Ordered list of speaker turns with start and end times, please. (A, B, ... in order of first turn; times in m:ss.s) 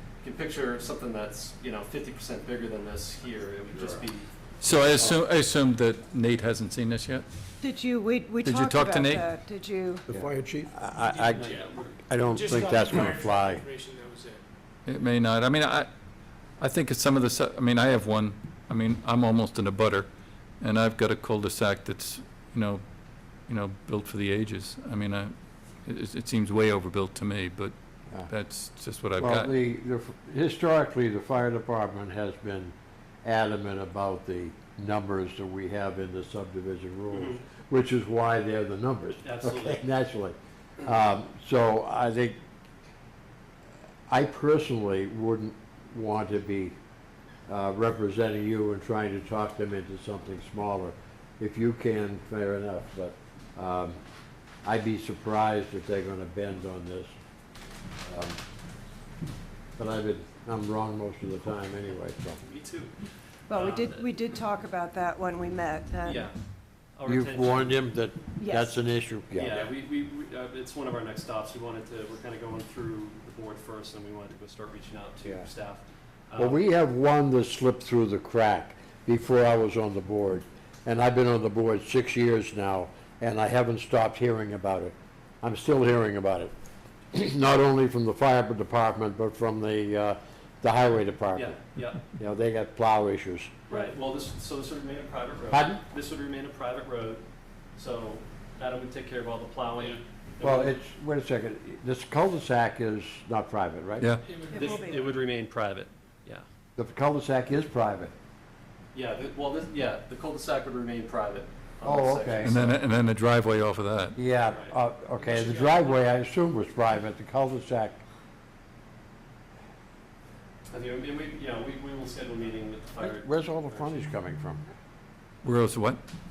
0:00.2-0:05.2 A
0:03.7-0:04.0 B
0:04.6-0:07.2 C
0:07.6-0:10.1 D
0:08.4-0:09.3 C
0:10.1-0:13.6 B
0:10.9-0:14.4 E
0:11.3-0:11.8 A
0:14.8-0:15.9 C
0:16.6-0:20.1 C
0:20.6-0:22.8 C
0:23.5-0:25.3 C
0:25.8-0:27.7 C
0:28.3-0:29.5 C
0:29.2-0:42.4 B
0:37.1-0:37.4 A
0:39.2-0:39.8 A
0:44.1-0:46.8 B
0:47.5-0:54.0 B
0:54.6-0:57.1 B
0:58.0-0:58.4 B
0:59.8-1:02.4 B
1:02.4-1:02.9 A
1:03.5-1:06.3 D
1:03.5-1:04.1 A
1:06.0-1:06.3 A
1:07.0-1:07.8 A
1:07.0-1:09.7 B
1:08.4-1:08.7 D
1:09.3-1:16.6 A
1:16.4-1:26.5 B
1:27.1-1:31.6 B
1:31.3-1:32.0 A
1:32.2-1:33.5 B
1:33.7-1:37.2 A
1:35.5-1:35.8 B
1:37.8-1:40.8 A
1:40.4-1:44.1 B
1:44.0-1:44.2 C
1:44.2-1:45.2 E
1:44.5-1:45.0 D
1:44.5-1:46.4 A
1:46.8-1:48.1 B
1:48.9-1:52.8 A
1:51.8-1:52.6 B
1:52.4-1:54.2 C
1:54.2-1:58.0 B
1:54.5-1:54.7 A
1:55.2-1:56.0 E
2:00.7-2:04.0 A
2:03.0-2:04.6 B
2:05.4-2:06.0 C